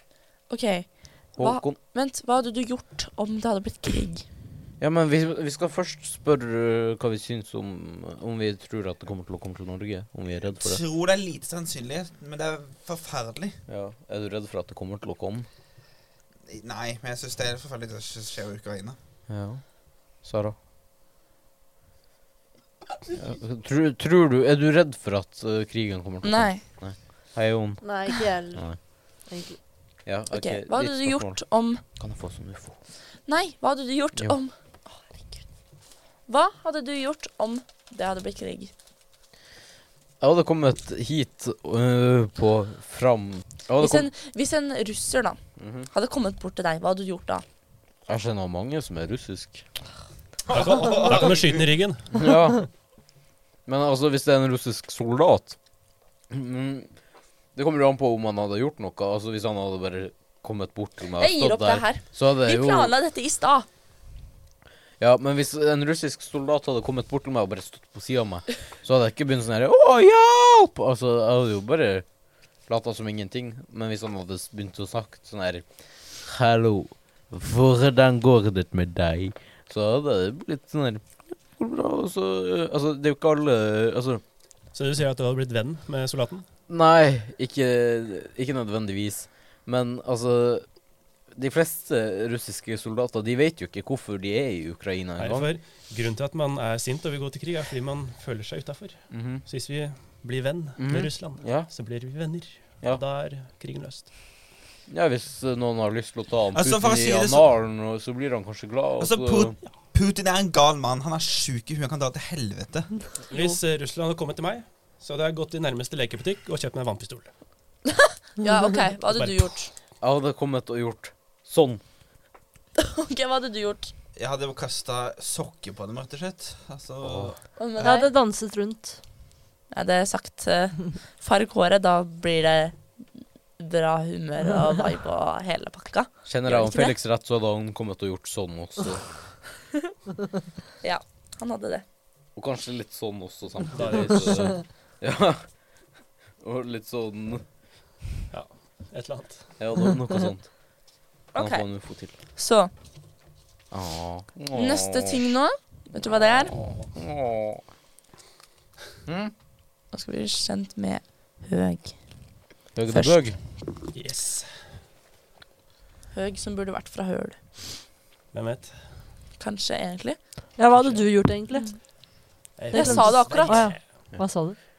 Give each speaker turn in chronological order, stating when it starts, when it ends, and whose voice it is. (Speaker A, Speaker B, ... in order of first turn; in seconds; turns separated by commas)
Speaker A: 0.5-4.2, Speaker B: 1.4-1.8, Speaker B: 4.8-10.8, Speaker C: 10.6-13.6, Speaker B: 13.7-15.5, Speaker C: 16.5-19.0, Speaker B: 19.3-19.6, Speaker B: 20.2-20.6, Speaker B: 23.2-28.8, Speaker A: 26.2-26.6, Speaker D: 27.8-29.6, Speaker B: 30.1-31.4, Speaker A: 30.3-31.8, Speaker B: 31.9-32.8, Speaker A: 33.3-34.5, Speaker A: 36.3-38.7, Speaker B: 40.2-44.1, Speaker A: 43.8-45.4, Speaker B: 45.6-45.9, Speaker A: 45.9-47.5, Speaker B: 48.1-49.6, Speaker C: 50.5-51.7, Speaker E: 50.5-52.2, Speaker B: 52.1-52.7, Speaker B: 53.7-55.6, Speaker B: 56.3-56.9, Speaker B: 57.5-62.9, Speaker A: 61.2-63.7, Speaker B: 65.0-72.0, Speaker B: 72.7-75.7, Speaker B: 76.2-84.2, Speaker E: 84.7-86.5, Speaker B: 86.7-90.7, Speaker B: 91.3-95.5, Speaker E: 95.2-104.1, Speaker B: 99.1-99.4, Speaker B: 100.8-101.7, Speaker B: 104.9-109.6, Speaker C: 106.5-107.5, Speaker C: 109.0-112.9, Speaker E: 113.3-117.3, Speaker A: 117.9-119.7, Speaker E: 119.1-119.5, Speaker B: 120.0-121.8, Speaker A: 122.8-123.9, Speaker C: 124.2-127.9, Speaker B: 127.0-127.3, Speaker A: 127.6-128.1, Speaker D: 127.8-129.0, Speaker A: 129.7-132.8, Speaker A: 133.6-136.9, Speaker B: 136.3-139.1, Speaker A: 140.8-141.8, Speaker B: 142.4-145.4, Speaker E: 143.7-144.5, Speaker B: 146.4-147.4, Speaker E: 148.3-149.4, Speaker B: 149.6-150.5, Speaker A: 151.3-151.7, Speaker B: 151.3-152.1, Speaker A: 152.4-152.7, Speaker B: 153.7-155.2, Speaker A: 154.5-156.6, Speaker B: 156.3-157.6, Speaker B: 159.1-159.3, Speaker A: 159.9-162.0, Speaker B: 162.8-163.4, Speaker A: 162.9-163.2, Speaker E: 163.9-164.6, Speaker A: 166.1-167.6, Speaker E: 168.3-168.8, Speaker A: 169.4-170.2, Speaker D: 170.6-171.8, Speaker E: 170.8-171.1, Speaker E: 172.6-173.8, Speaker A: 172.7-173.7, Speaker D: 172.7-174.6